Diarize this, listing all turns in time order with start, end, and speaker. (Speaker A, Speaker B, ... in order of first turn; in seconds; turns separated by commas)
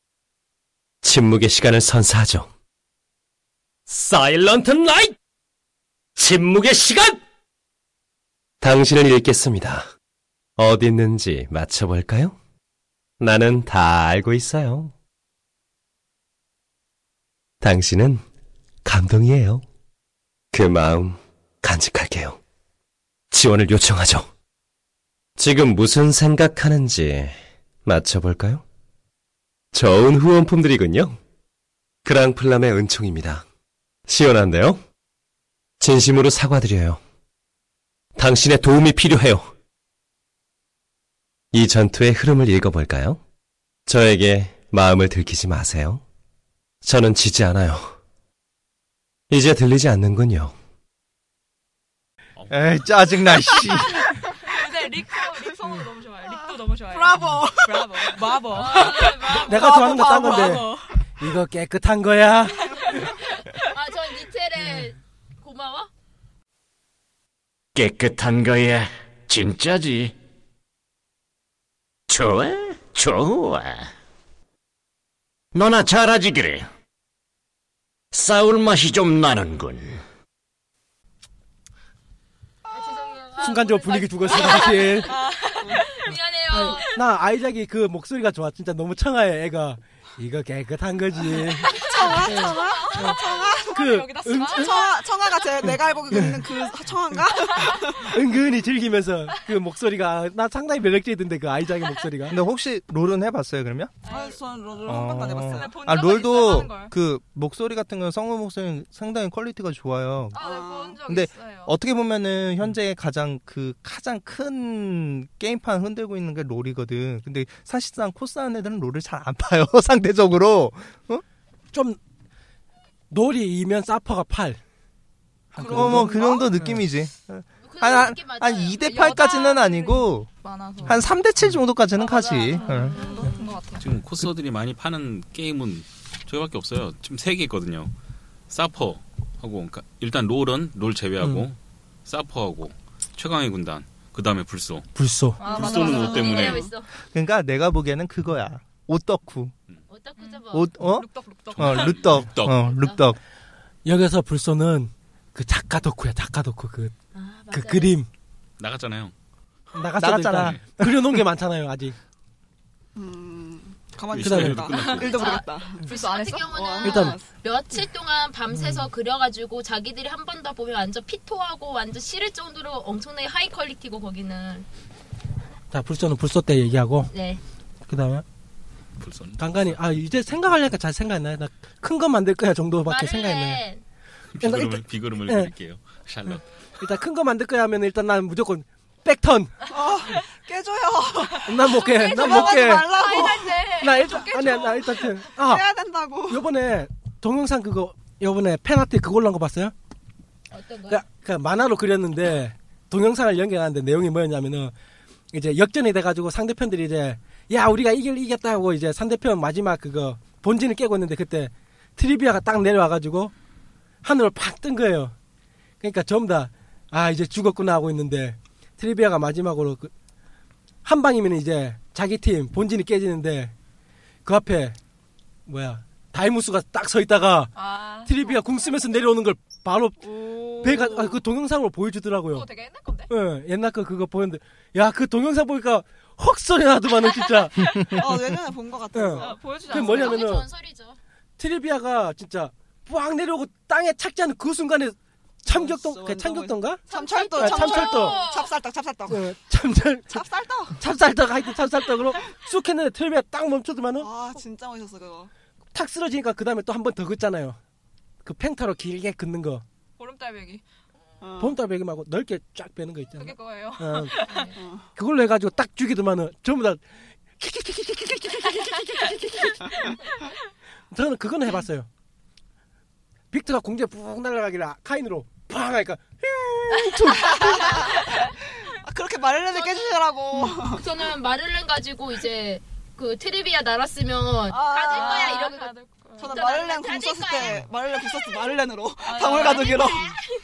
Speaker A: 1.0-2.5, Speaker A: 3.9-5.2, Speaker A: 6.2-7.2, Speaker A: 8.6-9.9, Speaker A: 10.6-12.4, Speaker A: 13.2-14.9, Speaker A: 17.6-18.2, Speaker A: 18.9-19.6, Speaker A: 20.5-22.4, Speaker A: 23.3-24.3, Speaker A: 25.4-28.6, Speaker A: 29.7-31.2, Speaker A: 32.0-33.4, Speaker A: 34.1-34.8, Speaker A: 35.8-37.0, Speaker A: 38.2-39.5, Speaker A: 41.5-43.2, Speaker A: 43.9-46.0, Speaker A: 46.8-47.9, Speaker A: 49.3-50.5, Speaker B: 52.4-52.7, Speaker C: 52.5-54.0, Speaker D: 54.4-59.4, Speaker E: 56.2-60.7, Speaker F: 58.5-60.3, Speaker G: 59.4-60.7, Speaker D: 60.0-61.0, Speaker G: 61.2-63.1, Speaker D: 62.7-63.1, Speaker F: 63.6-65.9, Speaker H: 67.8-70.2, Speaker H: 72.1-73.9, Speaker H: 75.5-76.7, Speaker H: 78.1-80.0, Speaker F: 82.7-87.0, Speaker G: 83.4-85.1, Speaker D: 85.1-85.8, Speaker G: 86.5-94.7, Speaker E: 91.6-93.9, Speaker D: 91.8-95.7, Speaker E: 94.5-98.1, Speaker G: 96.1-96.4, Speaker D: 97.5-97.8, Speaker G: 98.0-102.3, Speaker C: 102.3-104.0, Speaker E: 104.0-105.9, Speaker D: 104.1-104.3, Speaker C: 104.9-110.4, Speaker D: 105.5-106.9, Speaker D: 110.3-111.7, Speaker E: 110.3-111.0, Speaker C: 111.1-121.2, Speaker G: 121.7-122.0, Speaker G: 123.1-124.6, Speaker C: 125.5-130.3, Speaker E: 125.6-126.5, Speaker G: 125.6-126.8, Speaker F: 127.6-128.8, Speaker D: 128.8-131.0, Speaker G: 130.8-131.6, Speaker C: 130.9-133.0, Speaker F: 132.0-133.2, Speaker D: 132.3-133.9, Speaker E: 132.6-133.6, Speaker B: 133.8-137.9, Speaker B: 138.5-144.9, Speaker G: 144.9-145.4, Speaker D: 145.4-146.6, Speaker E: 145.5-146.5, Speaker B: 145.5-146.7, Speaker F: 145.6-146.9, Speaker C: 147.1-149.5, Speaker F: 149.9-150.7, Speaker D: 150.2-152.1, Speaker C: 150.5-153.2, Speaker B: 151.6-152.7, Speaker F: 152.4-153.0, Speaker G: 153.9-156.9, Speaker F: 157.1-157.9, Speaker G: 157.5-158.1, Speaker B: 158.6-159.1, Speaker G: 159.7-162.0, Speaker C: 160.0-161.2, Speaker B: 160.3-160.6, Speaker E: 162.9-165.9, Speaker B: 164.1-165.3, Speaker G: 164.2-164.6, Speaker D: 164.8-165.3, Speaker F: 165.0-174.7, Speaker D: 165.8-166.5, Speaker E: 166.4-167.3, Speaker G: 166.8-167.2, Speaker G: 168.6-168.8, Speaker G: 175.7-177.1, Speaker F: 177.1-177.4, Speaker G: 177.9-178.2, Speaker B: 179.0-180.1, Speaker G: 179.4-183.6, Speaker F: 182.9-183.8, Speaker B: 184.4-186.4, Speaker G: 184.4-185.5, Speaker G: 186.8-189.6, Speaker E: 189.7-193.7, Speaker G: 191.4-192.9, Speaker D: 191.9-194.8, Speaker F: 192.1-194.2, Speaker G: 193.8-195.6, Speaker E: 195.3-196.5, Speaker G: 196.3-199.7, Speaker F: 200.5-201.0, Speaker G: 200.9-204.7, Speaker G: 205.3-213.3, Speaker G: 214.0-215.2, Speaker G: 215.8-219.9, Speaker G: 220.8-223.5, Speaker G: 224.2-224.8, Speaker G: 225.5-227.5, Speaker D: 227.6-228.9, Speaker G: 228.1-230.1, Speaker E: 230.0-231.2, Speaker G: 230.6-232.5, Speaker D: 232.3-233.1, Speaker G: 233.1-237.9, Speaker D: 237.6-237.9, Speaker E: 238.0-239.8, Speaker G: 238.9-240.5, Speaker D: 239.1-240.4, Speaker F: 239.7-241.0, Speaker G: 241.4-246.8, Speaker E: 245.4-249.3, Speaker F: 246.9-248.6, Speaker G: 247.4-248.2, Speaker G: 249.1-250.2, Speaker E: 250.1-250.8, Speaker G: 250.7-254.1, Speaker E: 254.0-255.3, Speaker G: 255.7-257.6, Speaker G: 258.2-259.6, Speaker D: 260.0-260.6, Speaker E: 261.2-261.6, Speaker G: 261.4-264.1, Speaker D: 263.2-264.5, Speaker E: 264.5-264.9, Speaker G: 265.0-266.8, Speaker G: 267.4-270.0, Speaker G: 270.9-271.9, Speaker G: 273.3-277.9, Speaker F: 276.8-277.7, Speaker E: 277.5-280.8, Speaker D: 279.7-280.0, Speaker F: 280.6-287.6, Speaker E: 284.5-285.5, Speaker D: 284.9-286.4, Speaker E: 286.2-290.1, Speaker D: 289.0-290.1, Speaker F: 289.4-290.0